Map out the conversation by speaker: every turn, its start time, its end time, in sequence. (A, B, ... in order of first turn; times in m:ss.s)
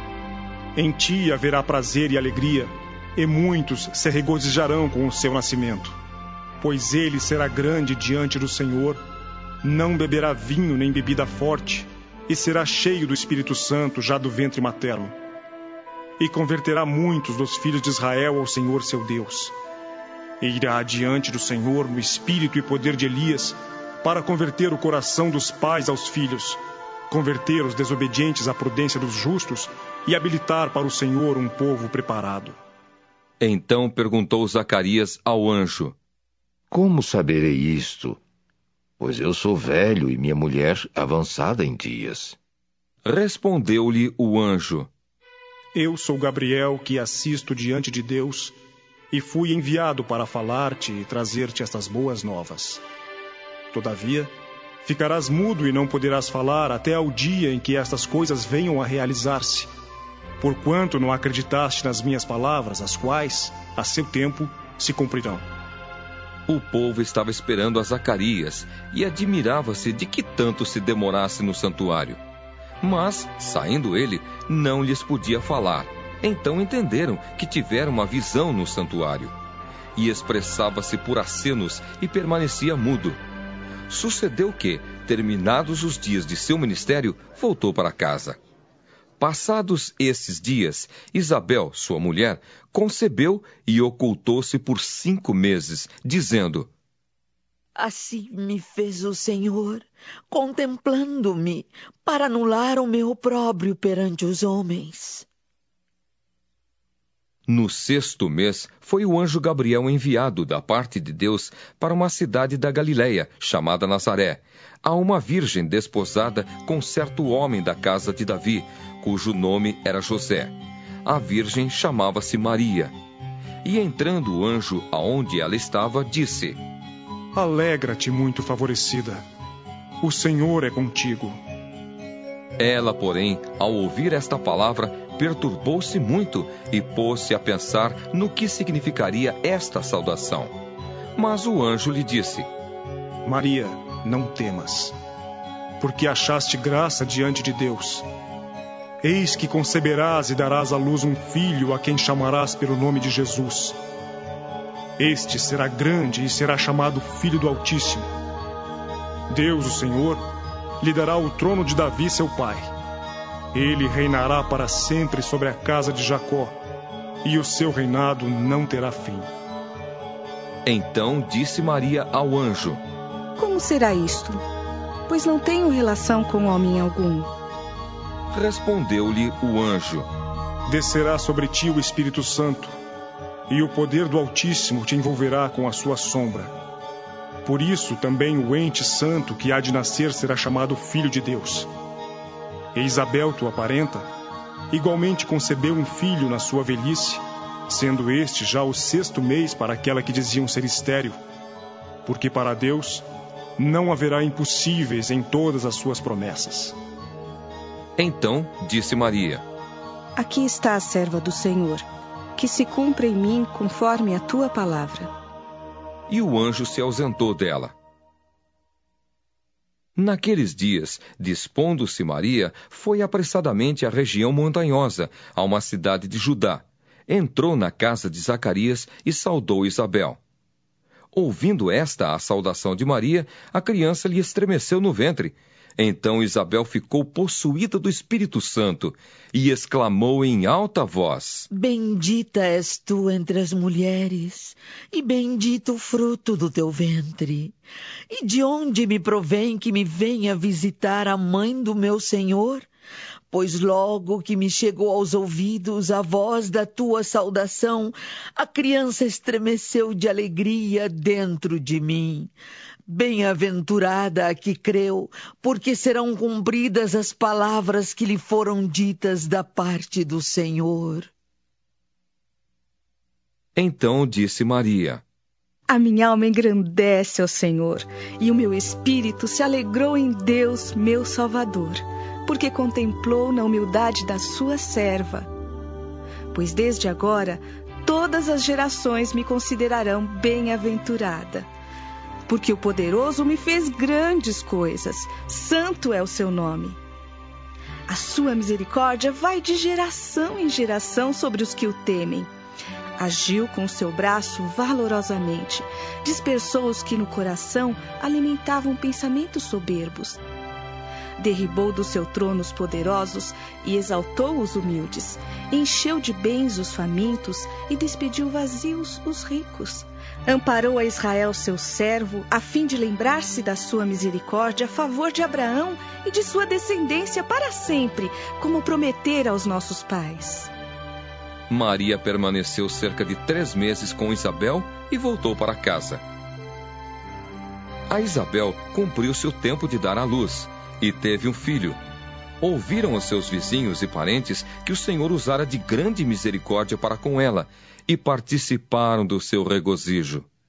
0:00.8-0:06.0 A
0:06.6-0:09.0 A
0:09.6-0:15.1 A
0:16.2-0:19.5 A
0:20.4-0:32.6 A
0:33.4-0:35.9 B
0:36.7-0:38.2 C
0:39.0-0:42.4 C
0:43.0-0:44.9 B
0:45.7-0:48.5 A
0:49.1-0:52.8 A
0:53.7-0:54.3 A
0:54.8-0:59.7 A
1:00.4-1:05.4 A
1:06.5-1:12.2 B
1:12.8-1:19.3 B
1:20.0-1:23.2 B
1:23.9-1:28.4 B
1:29.2-1:36.7 B
1:37.8-1:45.2 D
1:47.5-2:02.9 B
2:03.6-2:06.6 B
2:07.3-2:09.2 A
2:10.0-2:11.4 A
2:12.6-2:20.6 B
2:21.2-2:22.5 B
2:23.2-2:24.9 A
2:25.8-2:28.0 A
2:29.0-2:33.8 A
2:35.0-2:38.1 A
2:39.3-2:40.2 A
2:40.8-2:42.7 A
2:43.5-2:46.6 A
2:47.2-2:49.3 A
2:50.6-2:52.8 B
2:53.4-2:54.4 E
2:55.1-2:57.3 E
2:58.3-3:00.1 B
3:00.7-3:02.7 A
3:03.5-3:06.5 A
3:07.4-3:11.7 A
3:12.7-3:14.1 A
3:14.7-3:21.2 A
3:22.0-3:23.0 A
3:23.6-3:26.7 A
3:28.0-3:29.4 B
3:30.2-3:31.8 E
3:32.4-3:35.1 E
3:36.1-3:37.7 B
3:40.0-3:50.2 B
3:51.1-4:01.4 B
4:01.5-4:07.6 D
4:08.1-4:12.7 D
4:13.3-4:22.3 D
4:22.9-4:31.1 D
4:33.6-4:35.0 B
4:35.7-4:45.3 E
4:46.3-4:51.5 E
4:52.3-4:56.8 E
4:57.9-5:02.3 E
5:03.0-5:10.2 E
5:11.2-5:30.5 E
5:31.5-5:36.0 B
5:37.9-5:41.8 B
5:42.4-5:50.2 B